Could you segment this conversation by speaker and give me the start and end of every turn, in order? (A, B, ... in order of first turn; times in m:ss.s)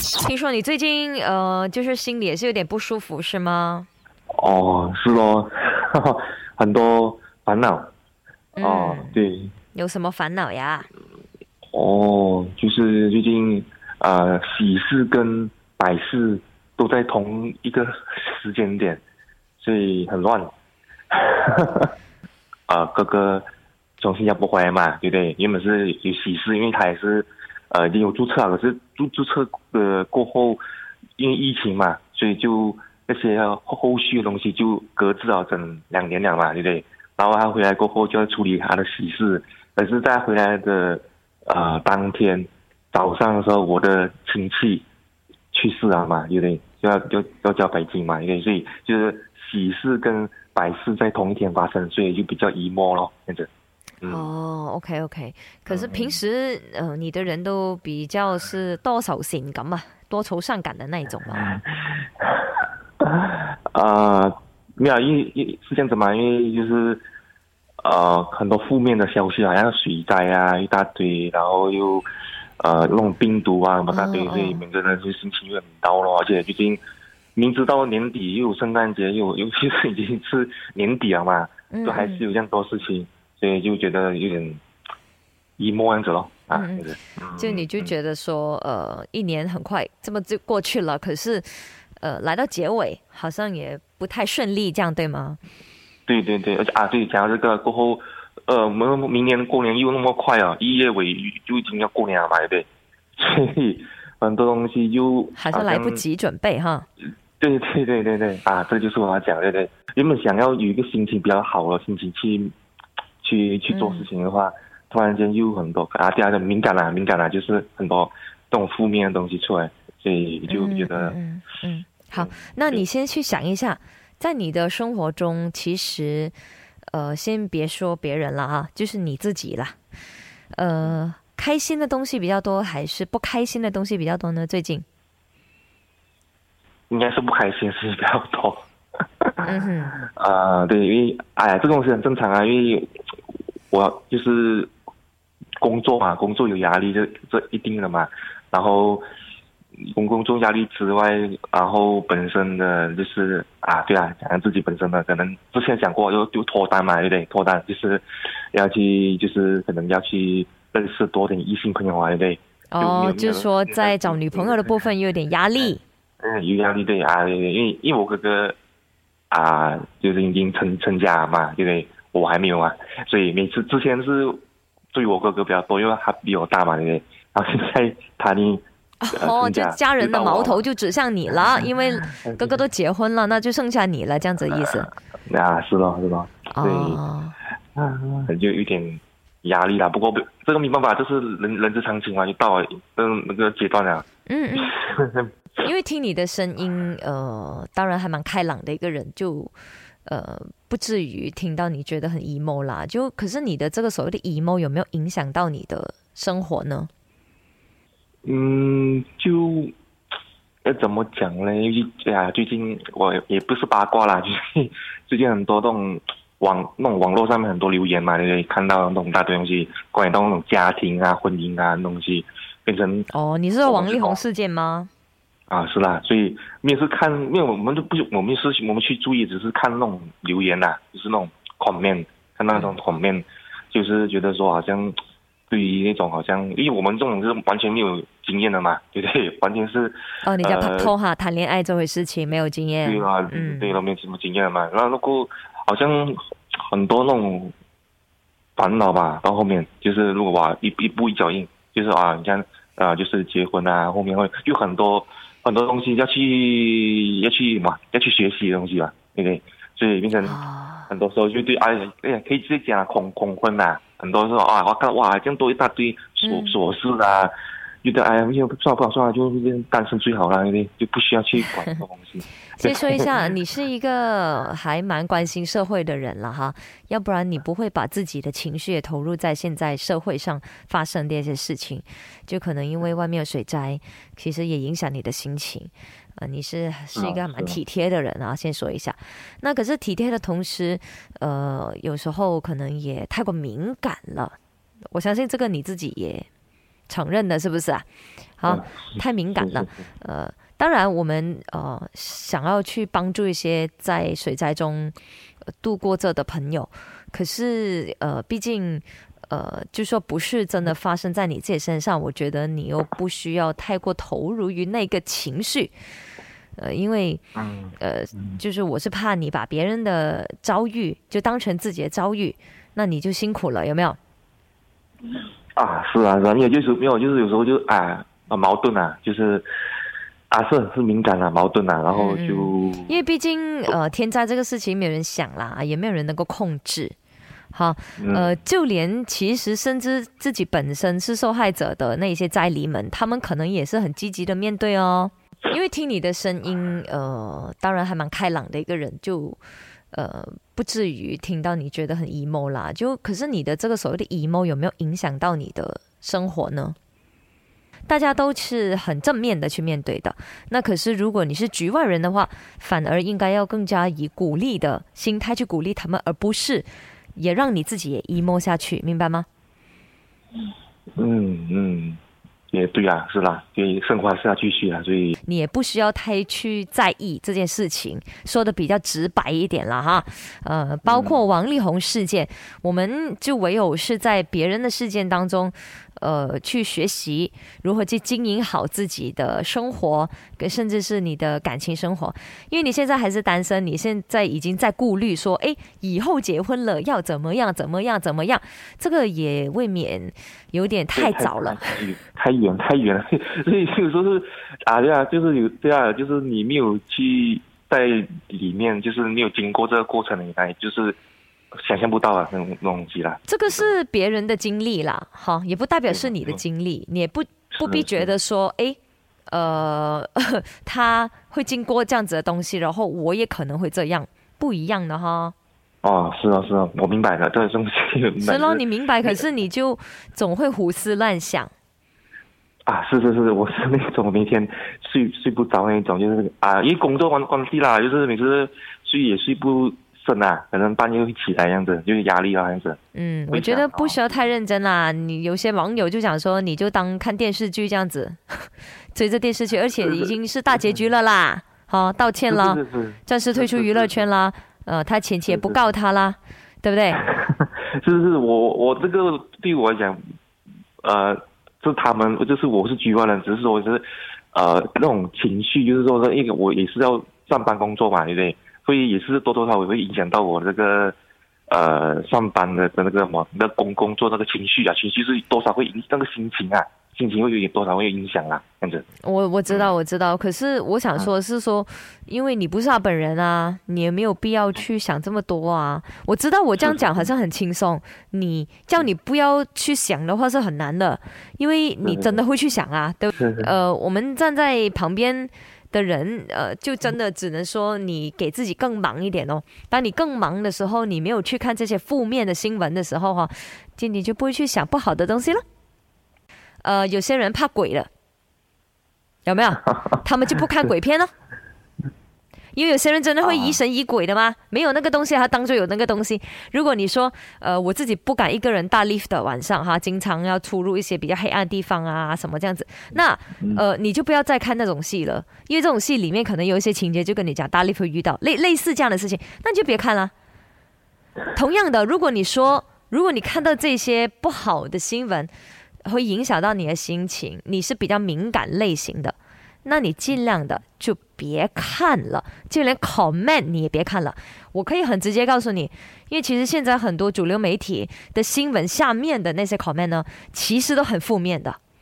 0:00.2-0:03.9 A
0:04.3-0:07.9 B
0:08.6-0:09.2 A
0:08.6-0:09.5 B
0:09.7-0:10.9 A
0:11.7-0:19.0 B
0:19.6-0:20.5 B
0:21.1-0:21.9 B
0:22.7-0:23.4 B
0:24.0-0:30.6 B
0:31.2-0:44.8 B
0:45.5-0:53.5 B
0:54.0-0:54.3 B
0:54.0-1:01.5 A
0:55.7-0:56.2 B
1:01.3-1:07.0 B
1:07.8-1:12.0 B
1:12.6-1:16.8 B
1:13.9-1:14.6 A
1:17.4-1:24.6 B
1:21.7-1:22.2 A
1:25.6-1:27.9 B
1:26.5-1:35.4 A
1:36.1-1:42.6 B
1:43.2-1:46.0 B
1:45.3-1:46.8 A
1:47.4-1:52.5 B
1:53.2-2:01.2 B
1:53.7-1:54.1 A
2:00.5-2:06.3 A
2:02.2-2:02.8 B
2:06.9-2:09.8 A
2:10.5-2:14.8 A
2:16.9-2:18.6 B
2:19.2-2:19.5 B
2:19.4-2:20.0 A
2:20.0-2:22.9 B
2:23.7-2:24.7 B
2:25.6-2:29.0 B
2:29.8-2:44.8 B
2:42.7-2:45.8 A
2:45.7-2:48.6 B
2:49.3-2:54.4 B
2:54.9-3:00.6 B
2:59.0-3:04.9 A
3:01.6-3:02.6 B
3:05.2-3:07.0 B
3:06.5-3:07.4 A
3:07.7-3:14.0 B
3:14.3-3:14.7 A
3:14.6-3:15.3 B
3:15.6-3:19.5 A
3:20.0-3:26.9 A
3:28.2-3:29.7 B
3:30.6-3:43.1 B
3:43.1-3:44.9 A
3:43.6-3:44.2 B
3:45.5-3:54.9 B
3:55.5-4:00.9 B
4:00.2-4:03.8 A
4:02.8-4:07.5 B
4:08.6-4:27.3 B
4:20.2-4:20.9 A
4:26.2-4:26.6 A
4:27.8-4:33.1 B
4:32.6-4:54.3 A
4:46.9-4:47.6 B
4:54.9-4:56.3 A
4:56.9-4:57.8 A
4:58.4-5:04.9 A
4:58.5-4:59.7 B
5:05.6-5:15.7 A
5:16.6-5:17.2 A
5:17.4-5:18.4 B
5:17.8-5:24.0 A
5:25.6-5:29.4 B
5:30.3-5:33.0 B
5:31.9-5:36.9 A
5:37.5-5:49.4 A
5:38.0-5:38.3 B
5:49.9-5:56.8 A
5:57.9-6:09.2 A
6:11.0-6:12.0 B
6:12.5-6:15.2 B
6:15.2-6:41.7 A
6:20.8-6:21.2 B
6:41.0-6:50.9 B
6:51.6-6:53.7 B
6:53.3-6:58.8 A
6:55.9-6:56.4 B
6:57.6-6:58.1 B
6:59.3-7:05.3 A
7:05.8-7:09.2 B
7:08.2-7:11.5 A
7:12.7-7:22.8 B
7:22.9-7:37.0 A
7:23.3-7:24.2 B
7:29.8-7:30.7 B
7:32.3-7:34.0 B
7:35.3-7:35.7 B
7:37.0-7:40.0 B
7:40.8-7:50.9 B
7:51.5-7:58.8 B
7:59.0-8:25.4 A
8:06.6-8:07.1 B
8:11.8-8:12.2 B
8:13.1-8:13.5 B
8:26.6-8:27.9 A
8:29.2-8:31.1 A
8:32.5-8:50.1 A
8:33.2-8:33.6 B
8:51.3-8:55.3 A
8:55.8-9:11.6 A